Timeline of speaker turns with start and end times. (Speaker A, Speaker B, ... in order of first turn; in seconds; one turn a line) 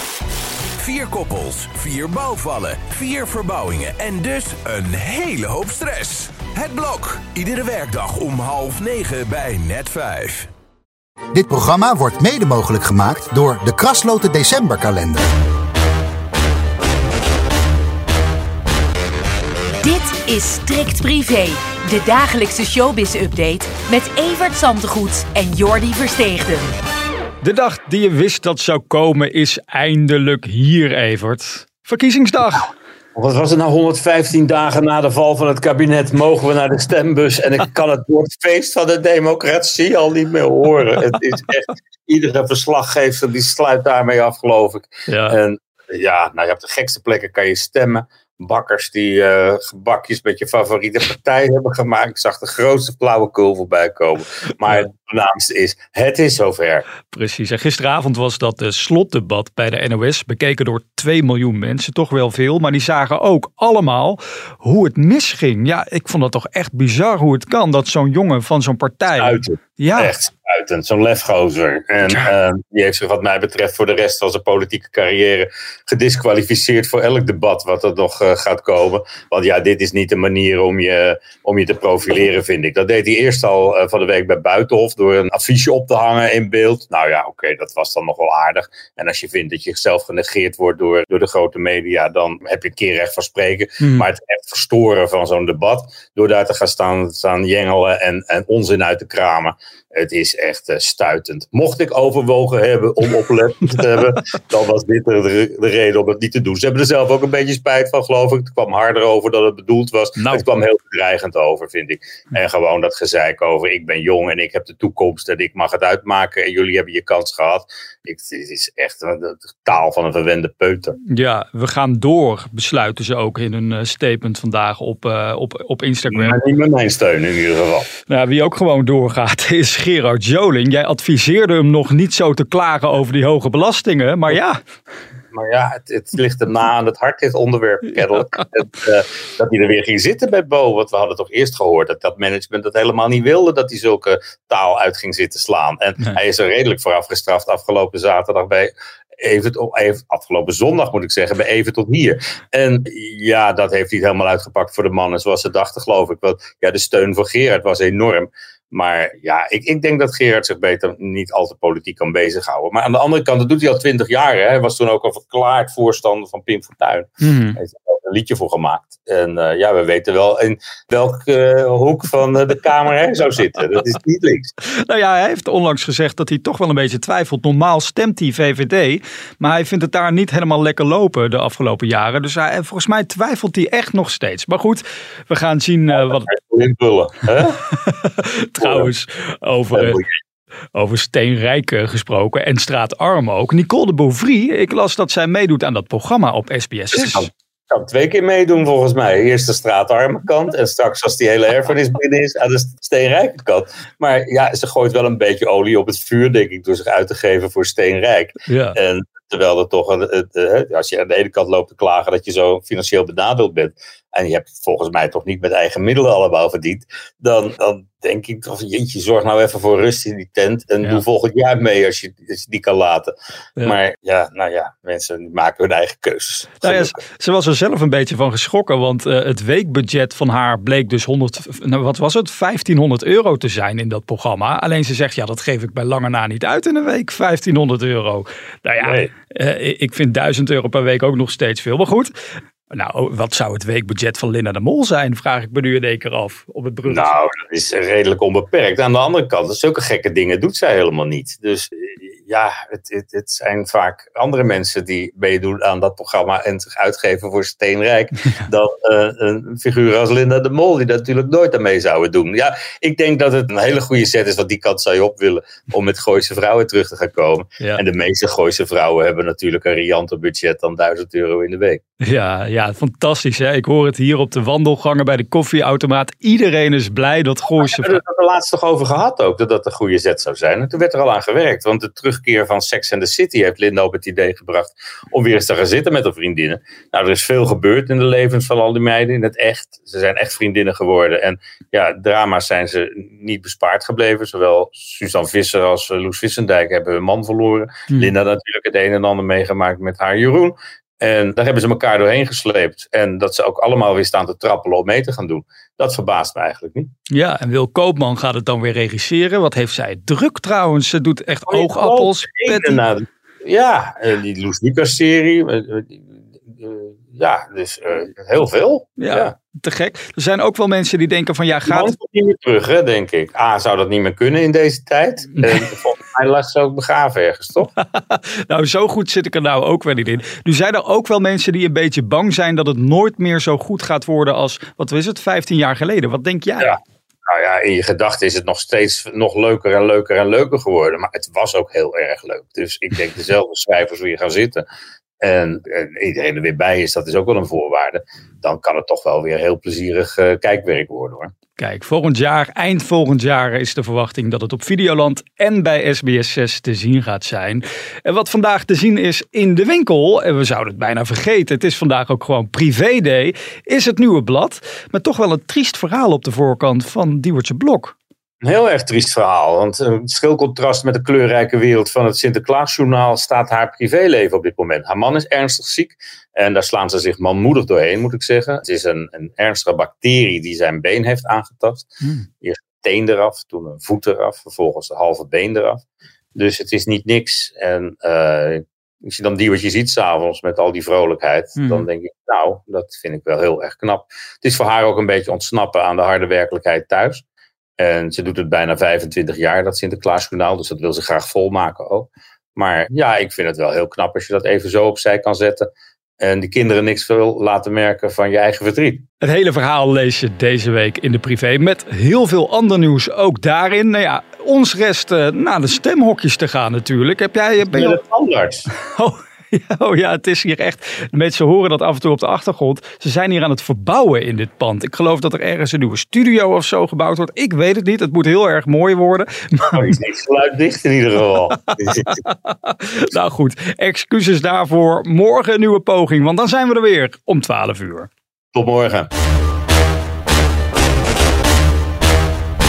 Speaker A: 0.8-10.5
Speaker B: 11.3-15.3
Speaker C: 19.8-26.8
Speaker D: 27.4-32.7
Speaker E: 33.1-56.9
Speaker D: 45.1-45.4
Speaker D: 57.0-70.1
Speaker E: 69.1-121.0
Speaker D: 93.8-94.1
Speaker D: 110.2-110.5
Speaker D: 121.1-126.4
Speaker E: 126.1-127.9
Speaker D: 128.1-134.6
Speaker E: 135.3-174.5
Speaker D: 167.2-167.6
Speaker D: 174.6-186.3
Speaker E: 185.9-187.6
Speaker D: 187.6-190.0
Speaker E: 188.6-188.9
Speaker E: 189.7-190.1
Speaker D: 190.7-197.3
Speaker E: 196.9-227.0
Speaker D: 208.5-208.8
Speaker D: 226.6-242.1
Speaker E: 238.8-239.1
Speaker D: 242.7-247.2
Speaker E: 246.9-271.8
Speaker D: 272.0-278.0
Speaker E: 277.5-306.9
Speaker D: 307.1-312.8
Speaker E: 311.5-319.3
Speaker D: 319.0-321.9
Speaker E: 321.7-327.7
Speaker D: 325.4-325.7
Speaker D: 327.7-336.8
Speaker E: 336.6-344.6
Speaker E: 345.2-351.3
Speaker D: 351.6-367.9
Speaker E: 368.4-381.9
Speaker E: 382.4-385.8
Speaker E: 386.4-397.2
Speaker D: 391.6-391.9
Speaker E: 397.8-409.1
Speaker D: 409.2-418.0
Speaker E: 417.6-418.7
Speaker D: 418.8-429.9
Speaker E: 429.7-432.1
Speaker D: 431.7-438.1
Speaker E: 438.5-439.1